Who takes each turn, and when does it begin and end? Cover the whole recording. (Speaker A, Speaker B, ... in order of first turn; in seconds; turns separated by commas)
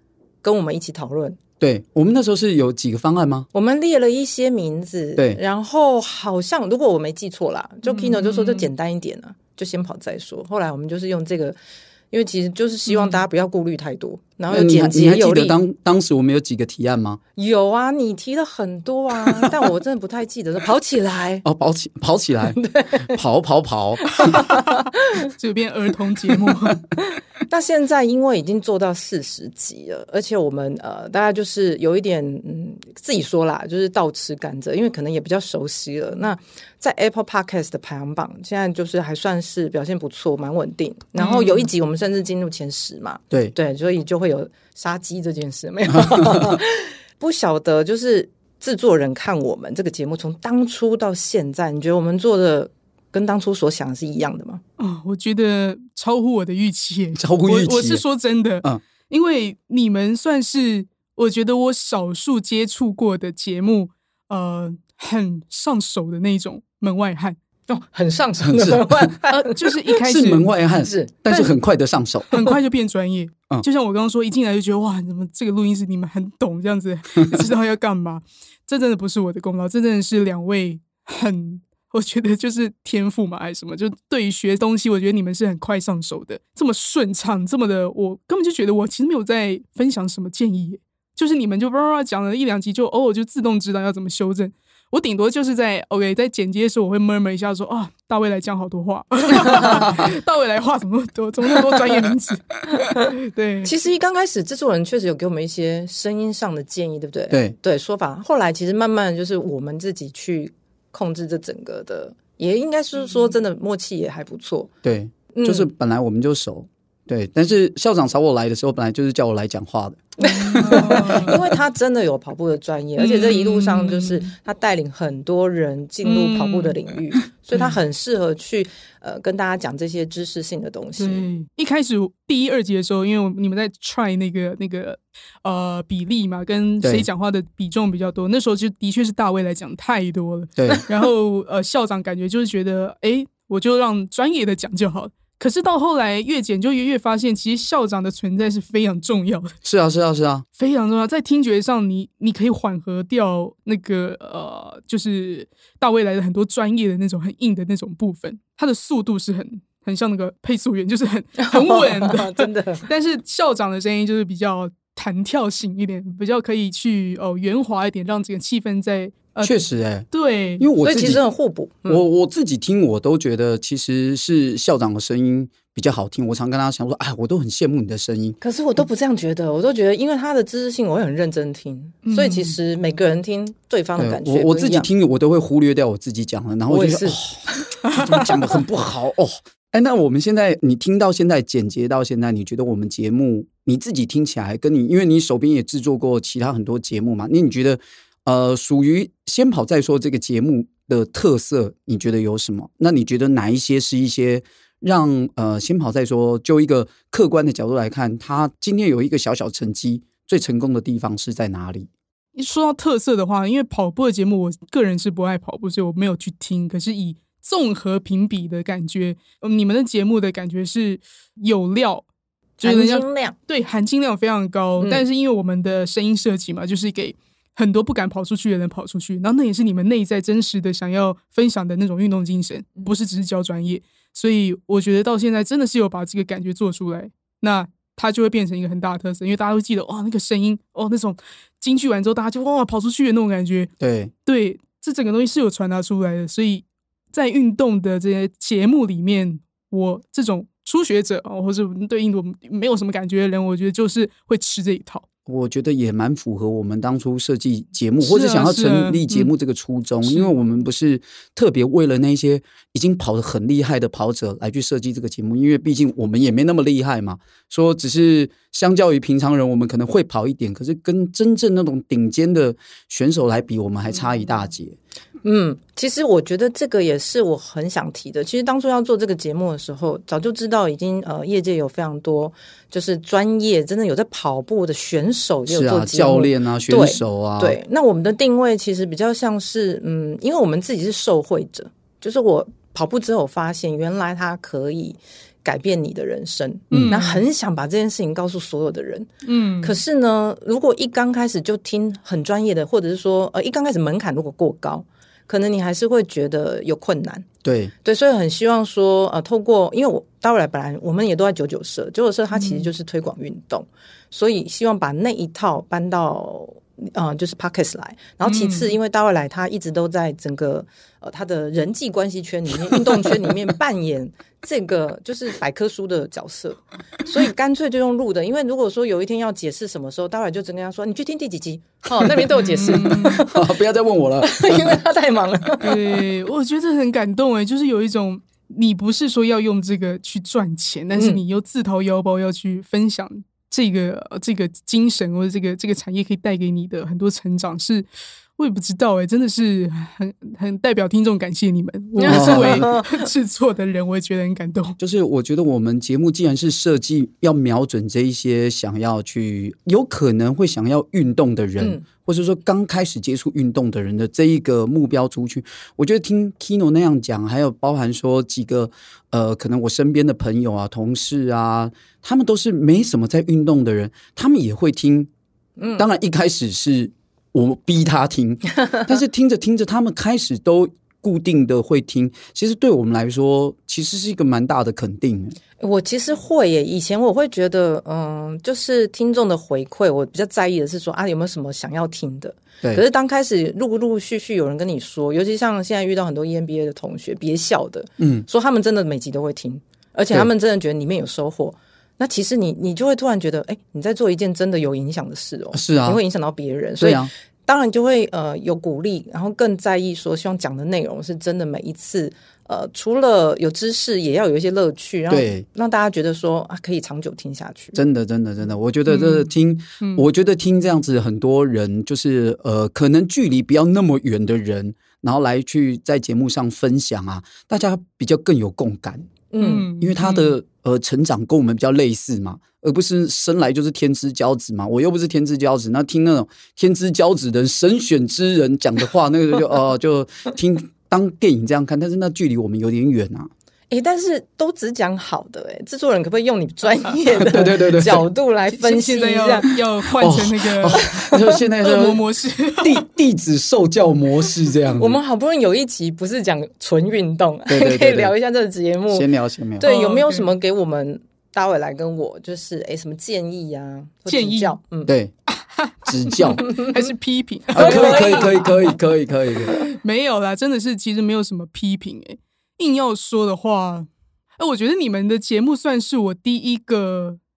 Speaker A: 0.4-1.4, Speaker B: 1.6-3.5, Speaker A: 3.5-11.6, Speaker C: 7.8-8.7, Speaker A: 12.1-15.6, Speaker C: 12.9-13.2, Speaker B: 14.5-17.2, Speaker A: 17.4-21.4, Speaker B: 21.4-24.4, Speaker A: 22.4-23.2, Speaker A: 24.1-25.3, Speaker C: 24.7-26.8, Speaker A: 27.0-54.6, Speaker C: 41.2-41.6, Speaker C: 54.8-67.4, Speaker B: 57.2-58.0, Speaker A: 67.7-70.0, Speaker B: 68.4-69.2, Speaker C: 69.3-70.5, Speaker B: 70.0-72.3, Speaker A: 70.8-71.5, Speaker C: 72.3-103.7, Speaker B: 99.6-100.1, Speaker A: 102.7-114.7, Speaker B: 114.8-121.1, Speaker A: 115.3-115.7, Speaker A: 120.2-131.2, Speaker C: 120.3-121.4, Speaker C: 123.0-124.2, Speaker C: 126.0-126.8, Speaker C: 131.0-149.5, Speaker B: 136.8-137.1, Speaker B: 140.6-140.8, Speaker B: 149.6-150.4, Speaker C: 150.6-169.5, Speaker A: 161.4-162.9, Speaker B: 169.4-170.1, Speaker C: 170.1-170.7, Speaker B: 170.6-171.2, Speaker A: 170.8-172.0, Speaker B: 171.9-178.4, Speaker A: 178.4-184.9, Speaker C: 182.0-182.6, Speaker B: 184.0-211.9, Speaker A: 186.7-188.2, Speaker C: 212.3-222.0, Speaker A: 222.6-223.3, Speaker C: 222.6-243.7, Speaker A: 224.8-225.0, Speaker B: 243.8-244.1, Speaker C: 244.2-255.0, Speaker B: 255.2-274.8, Speaker C: 258.0-259.3, Speaker C: 260.0-260.3, Speaker A: 275.2-299.1, Speaker B: 285.5-287.6, Speaker B: 296.7-297.0, Speaker C: 296.7-297.2, Speaker C: 299.2-299.8, Speaker A: 299.6-307.3, Speaker B: 307.4-307.7, Speaker A: 307.8-333.5, Speaker C: 312.4-312.7, Speaker C: 318.2-318.7, Speaker C: 332.3-333.2, Speaker B: 332.7-334.7, Speaker A: 334.2-336.0, Speaker C: 335.6-347.9, Speaker A: 340.9-341.2, Speaker C: 348.4-354.8, Speaker A: 352.0-353.1, Speaker B: 352.0-352.7, Speaker B: 354.8-375.1, Speaker A: 375.6-375.8, Speaker B: 375.8-385.4, Speaker A: 385.6-417.8, Speaker B: 398.0-398.2, Speaker B: 405.5-406.0, Speaker B: 406.8-407.1, Speaker B: 415.1-415.4, Speaker B: 417.7-429.2, Speaker C: 418.9-420.1, Speaker A: 429.3-429.7, Speaker C: 429.4-430.4, Speaker B: 429.8-443.3, Speaker A: 443.7-449.5, Speaker B: 447.2-448.1, Speaker C: 448.5-452.9, Speaker B: 450.0-452.0, Speaker A: 450.8-451.2, Speaker B: 452.6-455.0, Speaker A: 454.8-459.1, Speaker B: 457.5-458.1, Speaker B: 458.9-459.7, Speaker A: 459.6-464.9, Speaker C: 459.6-460.3, Speaker C: 464.1-464.6, Speaker B: 464.9-465.1, Speaker C: 465.3-468.7, Speaker B: 465.8-466.6, Speaker A: 466.4-466.8, Speaker B: 467.5-469.6, Speaker A: 467.6-468.6, Speaker C: 469.5-477.2